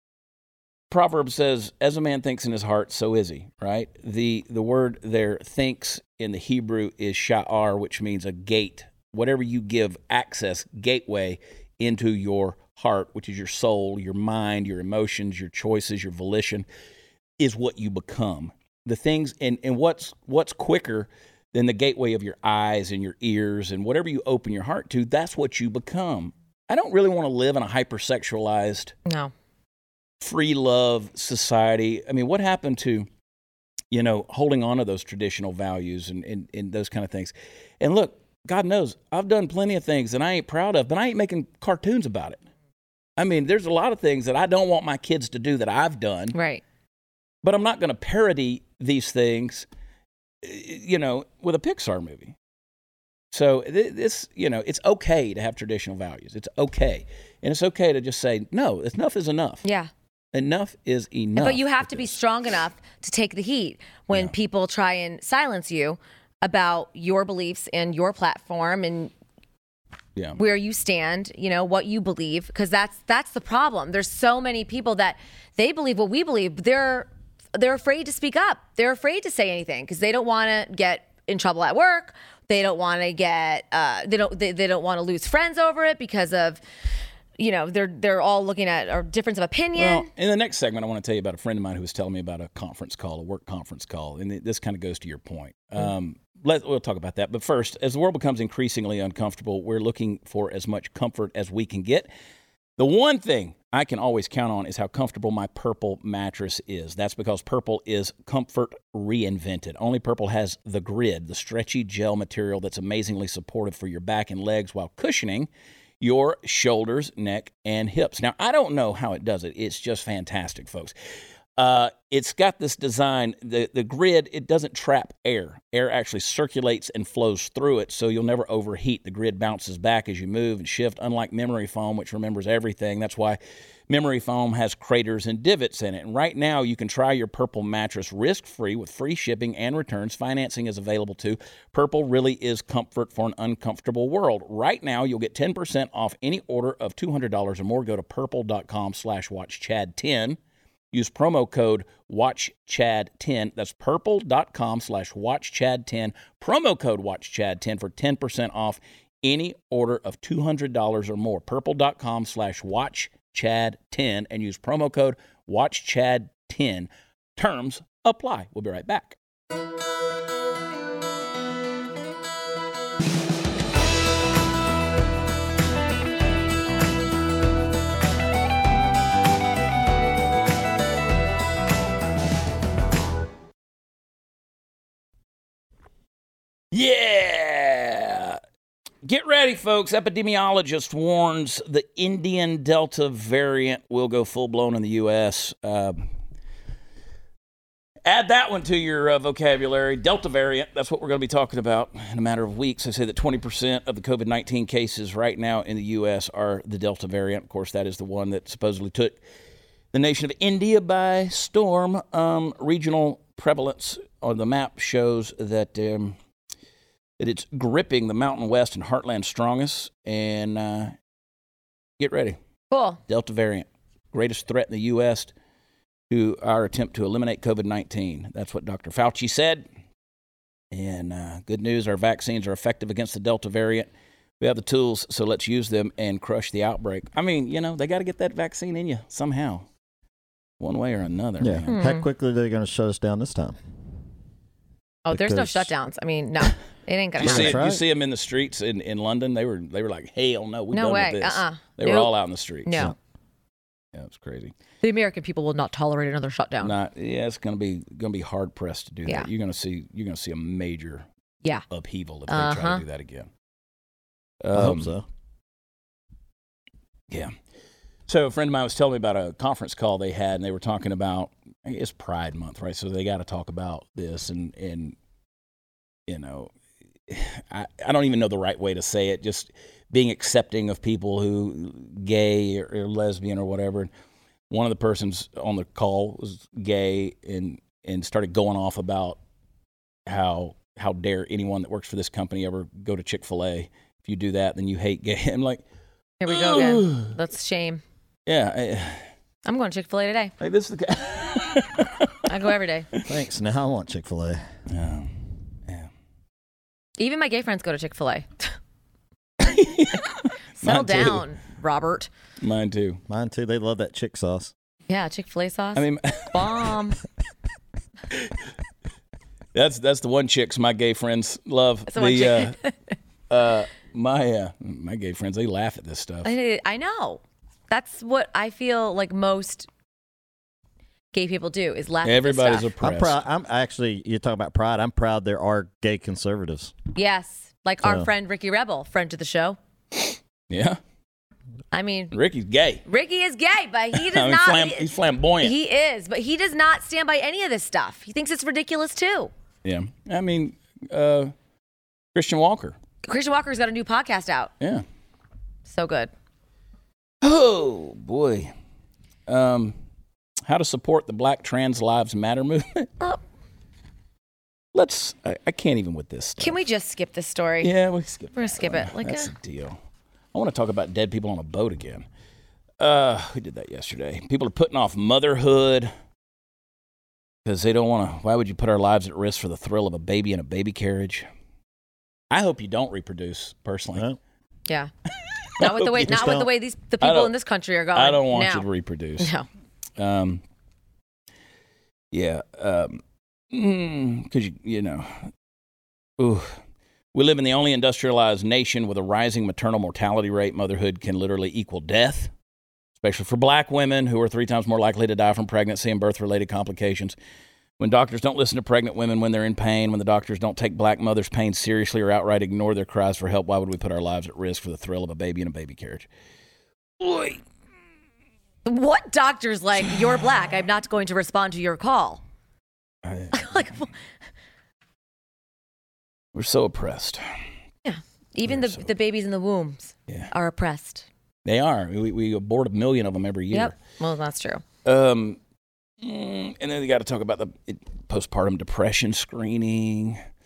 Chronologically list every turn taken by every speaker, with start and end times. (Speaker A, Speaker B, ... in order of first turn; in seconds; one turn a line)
Speaker A: 0.9-16.6
Speaker A: 17.4-28.9
Speaker B: 29.1-29.3
Speaker A: 30.2-33.1
Speaker A: 33.9-42.4
Speaker A: 43.2-46.3
Speaker B: 46.3-46.6
Speaker A: 47.4-49.7
Speaker A: 50.4-52.3
Speaker A: 53.3-59.6
Speaker B: 59.6-59.9
Speaker A: 60.3-62.2
Speaker B: 61.4-69.1
Speaker B: 70.4-86.6
Speaker B: 87.4-90.1
Speaker A: 89.8-102.1
Speaker A: 102.8-115.5
Speaker A: 116.0-120.9
Speaker A: 121.6-150.4
Speaker A: 150.9-169.2
Speaker A: 186.7-188.4
Speaker A: 189.0-196.0
Speaker A: 198.0-209.2
Speaker A: 209.9-216.2
Speaker A: 217.2-220.9
Speaker A: 222.0-222.4
Speaker B: 222.7-223.0
Speaker A: 223.1-225.3
Speaker A: 226.1-229.7
Speaker A: 230.7-233.9
Speaker A: 234.4-239.7
Speaker A: 240.6-241.8
Speaker C: 241.4-243.6
Speaker B: 241.7-242.0
Speaker B: 245.1-247.6
Speaker C: 245.1-245.7
Speaker A: 247.2-252.9
Speaker C: 247.2-247.8
Speaker B: 250.7-252.1
Speaker B: 252.6-252.9
Speaker A: 253.9-254.5
Speaker B: 254.8-256.7
Speaker A: 256.6-261.0
Speaker A: 261.7-263.3
Speaker B: 262.3-262.8
Speaker A: 264.4-264.9
Speaker C: 264.5-265.0
Speaker A: 268.1-274.9
Speaker A: 276.1-276.5
Speaker A: 277.1-283.9
Speaker A: 284.5-289.2
Speaker A: 290.1-295.6
Speaker B: 296.2-297.8
Speaker A: 296.2-297.1
Speaker A: 298.3-299.0
Speaker B: 299.4-300.3
Speaker A: 300.4-302.1
Speaker B: 302.3-302.9
Speaker C: 303.0-304.4
Speaker A: 304.7-305.1
Speaker B: 307.0-308.5
Speaker A: 309.4-311.2
Speaker B: 310.6-312.1
Speaker A: 312.4-313.0
Speaker C: 313.1-314.5
Speaker B: 314.9-317.0
Speaker A: 315.8-316.7
Speaker A: 319.5-322.6
Speaker B: 321.9-322.9
Speaker A: 323.3-326.3
Speaker B: 326.2-329.7
Speaker B: 331.1-332.7
Speaker A: 332.0-333.2
Speaker C: 332.8-336.7
Speaker B: 336.9-339.6
Speaker A: 340.5-340.8
Speaker B: 341.7-342.1
Speaker A: 342.1-342.8
Speaker B: 342.9-344.9
Speaker A: 343.9-345.5
Speaker B: 345.4-349.3
Speaker A: 349.6-351.3
Speaker A: 352.1-352.8
Speaker B: 353.0-354.5
Speaker B: 355.6-356.1
Speaker A: 357.2-358.5
Speaker A: 359.3-359.8
Speaker A: 360.4-362.9
Speaker A: 364.7-366.6
Speaker B: 366.4-367.7
Speaker A: 367.6-369.8
Speaker B: 368.4-369.3
Speaker A: 370.3-372.1
Speaker A: 372.8-375.9
Speaker A: 377.4-381.3
Speaker A: 382.3-384.1
Speaker A: 385.6-386.4
Speaker B: 385.6-388.6
Speaker C: 386.0-386.5
Speaker A: 387.0-387.3
Speaker A: 387.9-389.3
Speaker B: 389.2-389.4
Speaker A: 390.0-390.4
Speaker A: 392.1-393.0
Speaker A: 393.5-395.3
Speaker A: 396.2-396.6
Speaker A: 397.1-402.3
Speaker A: 403.0-407.1
Speaker A: 407.8-416.1
Speaker A: 417.0-417.4
Speaker B: 418.6-422.2
Speaker A: 423.0-423.7
Speaker B: 423.3-423.9
Speaker A: 426.3-427.2
Speaker B: 427.8-431.1
Speaker A: 428.4-428.9
Speaker A: 431.4-433.8
Speaker B: 433.5-434.6
Speaker A: 434.8-435.4
Speaker A: 436.0-440.2